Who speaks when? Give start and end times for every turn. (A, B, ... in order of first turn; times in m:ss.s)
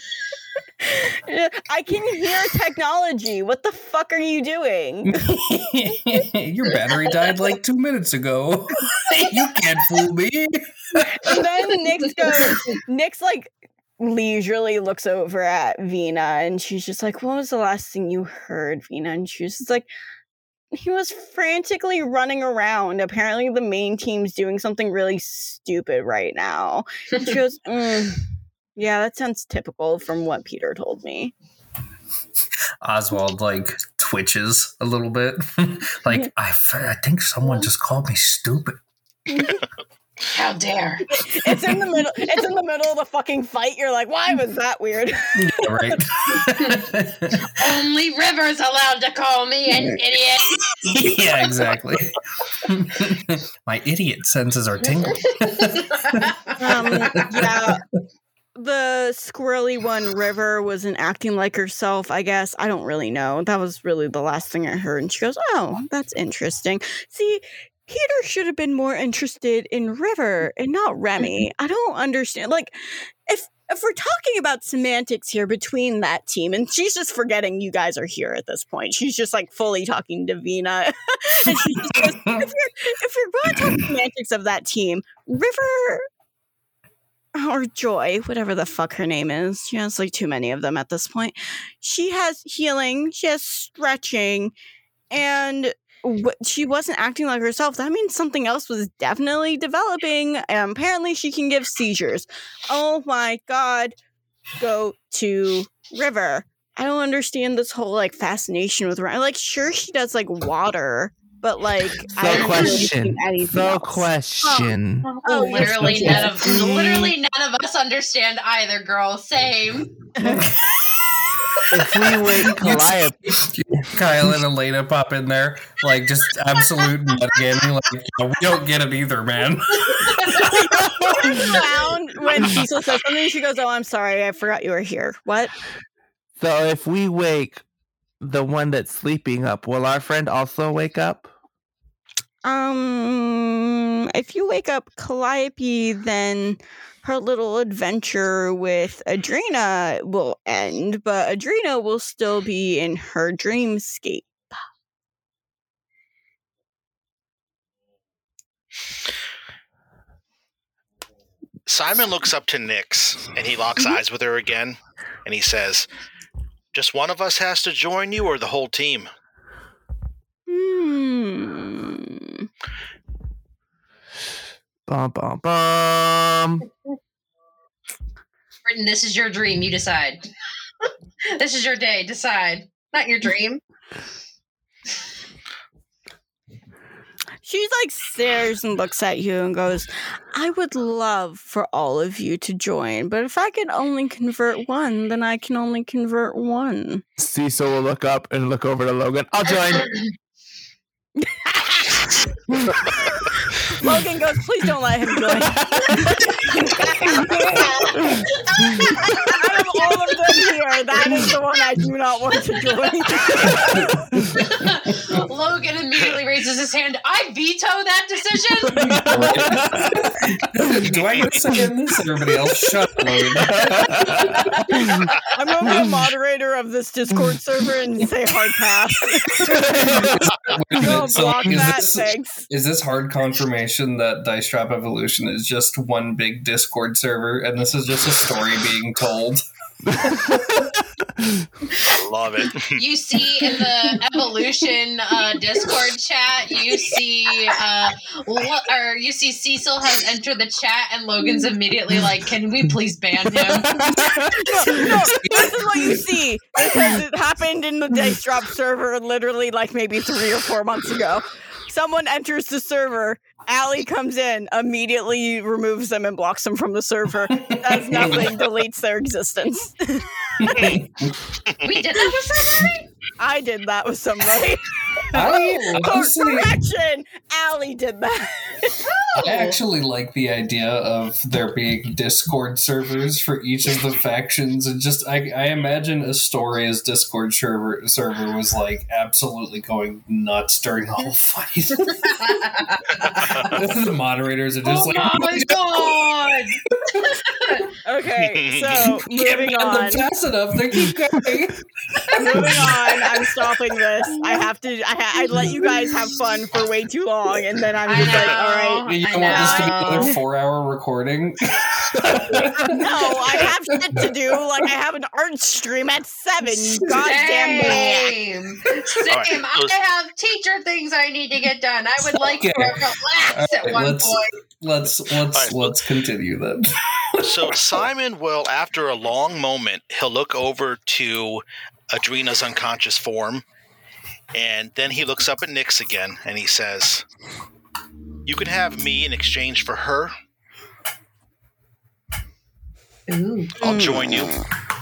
0:00.8-0:05.4 A
0:05.1-0:11.4 B
0:11.2-0:19.9 A
0:20.7-0:28.2 A
0:28.8-0:31.3 A
0:32.8-0:38.8 B
0:39.3-0:39.6 A
0:40.3-0:41.0 C
0:41.1-0:46.0 A
0:45.4-0:47.6 B
0:47.6-0:50.6 C
0:50.7-0:56.3 B
0:55.0-0:57.4 C
0:56.6-0:57.8 A
0:57.2-0:57.7 B
0:58.6-1:26.1 A
1:21.5-1:22.4 B
1:23.6-1:23.9 B
1:27.4-1:34.5 A
1:35.1-1:44.0 A
1:44.6-1:56.7 A
1:52.1-1:57.0 D
1:52.3-1:52.8 C
1:55.0-1:59.9 C
2:00.2-2:00.5 A
2:00.2-2:01.3 B
2:01.7-2:03.2 D
2:02.4-2:10.7 B
2:09.9-2:10.4 C
2:11.2-2:11.6 C
2:11.2-2:15.5 A
2:16.4-2:17.6 D
2:18.2-2:21.3 D
2:22.4-2:34.5 A
2:41.7-2:45.9 E
2:46.7-2:49.1 E
2:50.5-2:52.4 A
2:54.9-2:56.7 D
2:58.6-3:00.3 C
3:01.3-3:03.6 C
3:07.4-3:17.0 A
3:17.2-3:20.0 D
3:21.2-3:22.1 A
3:23.6-3:33.9 A
3:25.5-3:26.1 D
3:27.3-3:29.2 C
3:33.6-3:34.4 B
3:34.4-3:38.8 C
3:38.7-3:40.2 D
3:38.8-3:44.7 B
3:43.4-3:45.0 D
3:44.4-3:52.4 A
3:45.7-3:46.0 D
3:49.5-3:50.2 D
3:49.6-3:59.4 B
4:00.0-4:01.3 D
4:00.0-4:00.6 B
4:01.8-4:02.8 E
4:02.7-4:14.0 C
4:13.4-4:15.0 D
4:14.4-4:30.8 A
4:27.4-4:28.4 B
4:30.4-4:31.2 B
4:31.6-4:32.9 C
4:33.2-4:38.9 A
4:35.1-4:36.6 B
4:39.2-4:39.6 C
4:39.2-4:52.2 B
4:52.0-4:53.4 C
4:53.2-4:53.5 E
4:53.3-4:55.6 B
4:54.6-4:57.7 C
4:57.8-5:00.0 A
4:58.2-4:59.0 E
4:59.2-5:01.6 B
5:02.1-5:02.6 C
5:02.2-5:10.1 A
5:02.2-5:02.9 B
5:07.9-5:10.2 C
5:08.9-5:13.4 B
5:12.0-5:12.7 D
5:12.7-5:18.2 A
5:17.0-5:24.3 C
5:19.1-5:19.7 E
5:22.4-5:27.5 B
5:25.3-5:25.7 E
5:27.2-5:33.4 E
5:34.3-5:37.0 E
5:38.3-5:40.1 E
5:43.1-5:43.6 C
5:43.6-5:44.4 E
5:43.6-5:44.5 A